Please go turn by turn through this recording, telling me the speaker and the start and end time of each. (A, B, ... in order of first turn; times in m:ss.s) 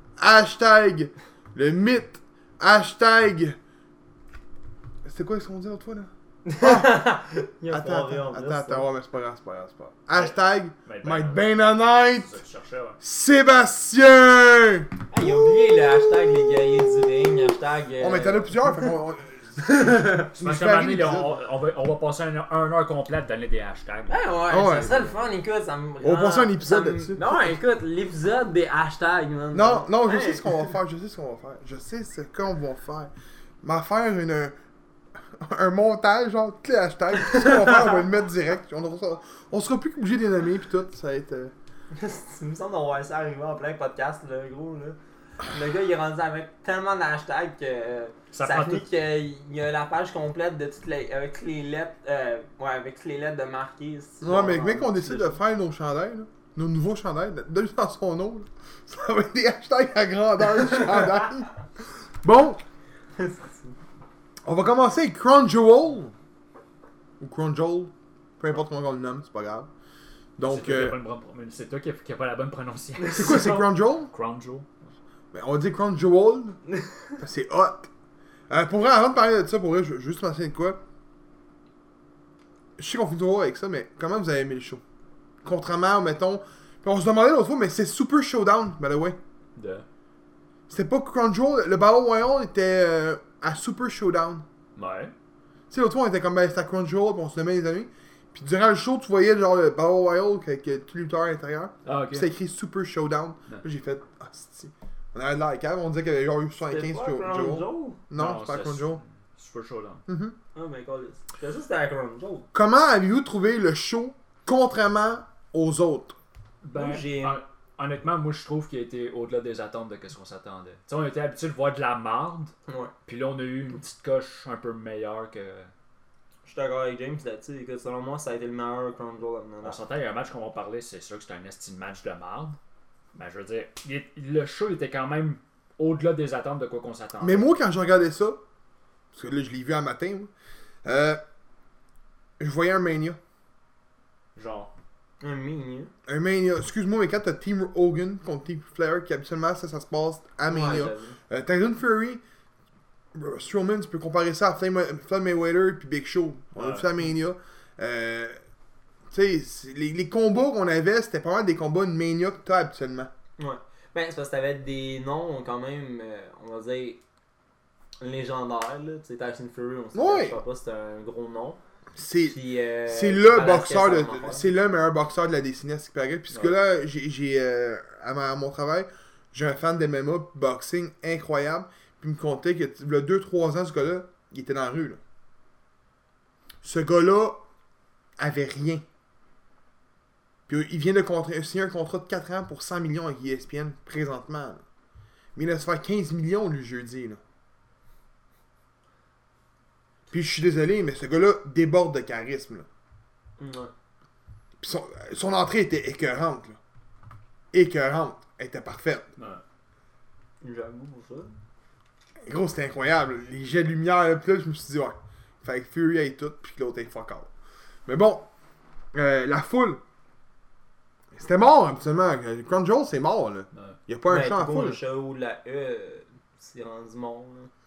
0:00.2-0:03.6 A
0:05.0-0:07.0 A
0:06.4-0:08.9 B
0:07.7-0:12.3 A
0:10.1-0:13.0 C
0:13.0-0:17.4 A
0:15.1-0:18.9 B
0:18.0-0:21.4 A
0:19.6-0:20.3 B
0:20.3-0:24.1 C
0:24.1-0:30.7 B
0:24.5-0:25.1 A
0:26.0-0:27.5 A
0:29.5-0:33.1 A
0:33.6-0:34.5 A
0:35.3-0:41.5 A
0:37.3-0:37.7 B
0:41.9-0:55.4 B
0:48.3-0:48.8 C
0:54.2-1:02.6 A
1:03.1-1:03.7 B
1:04.4-1:06.1 A
1:07.2-1:09.7 A
1:10.4-1:11.0 A
1:10.4-1:14.7 C
1:13.1-1:14.1 A
1:15.3-1:16.6 A
1:17.2-1:17.9 A
1:18.5-1:20.8 A
1:22.8-1:24.8 A
1:25.4-1:29.2 A
1:29.6-1:29.8 C
1:30.7-1:34.4 A
1:34.8-1:35.1 C
1:35.7-1:49.0 A
1:41.8-1:42.3 C
1:46.7-1:48.0 B
1:48.2-1:50.0 C
1:50.1-1:50.4 A
1:50.5-1:52.5 B
1:52.5-1:56.2 A
1:56.6-2:02.5 C
1:56.7-1:57.4 B
2:02.7-2:02.9 B
2:03.0-2:05.7 C
2:06.4-2:09.8 B
2:09.6-2:12.6 C
2:13.1-2:17.5 C
2:17.2-2:18.4 A
2:19.1-2:20.3 A
2:20.8-2:21.2 A
2:22.4-2:23.2 A
2:24.4-2:24.7 C
2:25.2-2:25.9 B
2:26.1-2:32.2 A
2:30.4-2:31.2 B
2:33.1-2:38.4 A
2:36.6-2:37.0 C
2:39.1-2:43.1 A
2:43.4-2:47.0 B
2:48.0-2:51.6 B
2:49.9-2:50.4 A
2:52.0-3:05.0 A
2:52.2-2:54.4 B
2:56.3-2:56.6 C
3:06.6-3:07.4 A
3:08.2-3:08.8 A
3:10.5-3:14.6 A
3:15.4-3:17.2 A
3:20.1-3:22.6 A
3:23.4-3:23.7 B
3:24.6-3:26.6 A
3:27.5-3:29.1 A
3:29.2-3:29.4 C
3:30.4-3:31.4 B
3:32.2-3:37.3 A
3:37.8-3:38.3 A
3:38.9-3:39.8 A
3:41.1-3:44.8 A
3:44.1-3:47.5 B